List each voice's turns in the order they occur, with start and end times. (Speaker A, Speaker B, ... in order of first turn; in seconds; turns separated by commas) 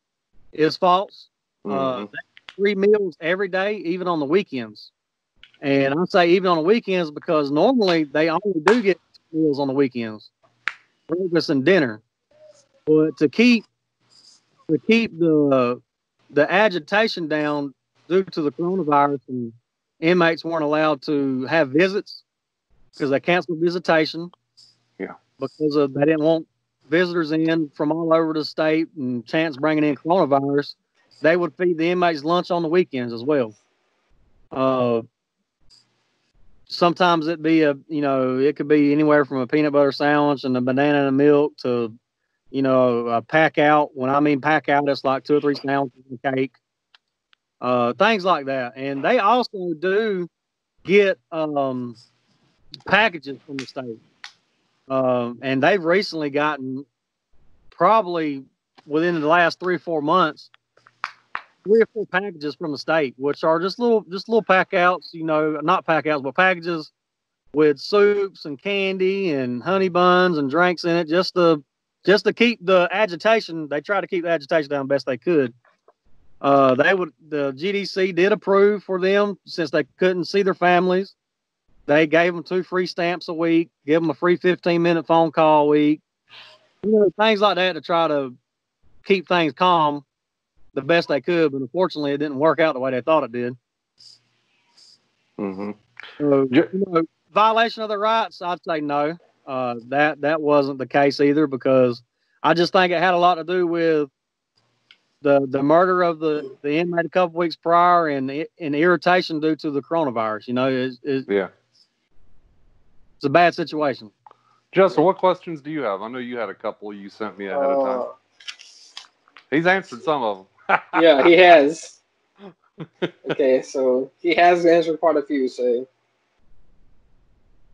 Speaker A: 0.5-4.9, Speaker B: 1.6-2.1, Speaker A: 5.6-10.3, Speaker A: 11.1-12.0, Speaker A: 12.9-13.7, Speaker A: 14.7-15.8, Speaker A: 16.3-22.2, Speaker A: 23.0-24.3, Speaker A: 25.4-33.5, Speaker A: 34.5-35.0, Speaker A: 36.7-42.0, Speaker A: 42.5-46.6, Speaker A: 47.6-50.3, Speaker A: 50.8-52.0, Speaker A: 52.9-54.0, Speaker A: 54.9-56.9, Speaker A: 57.7-60.5, Speaker A: 61.6-66.9, Speaker A: 67.5-75.5, Speaker A: 76.4-81.2, Speaker A: 81.9-86.0, Speaker A: 86.8-88.4, Speaker A: 89.0-90.0, Speaker A: 90.7-93.6, Speaker B: 95.4-95.8, Speaker A: 96.2-104.1, Speaker A: 105.2-111.3, Speaker A: 113.2-114.1, Speaker B: 114.7-118.1, Speaker C: 117.5-118.1, Speaker B: 119.5-121.3, Speaker C: 121.0-122.0, Speaker C: 123.2-125.9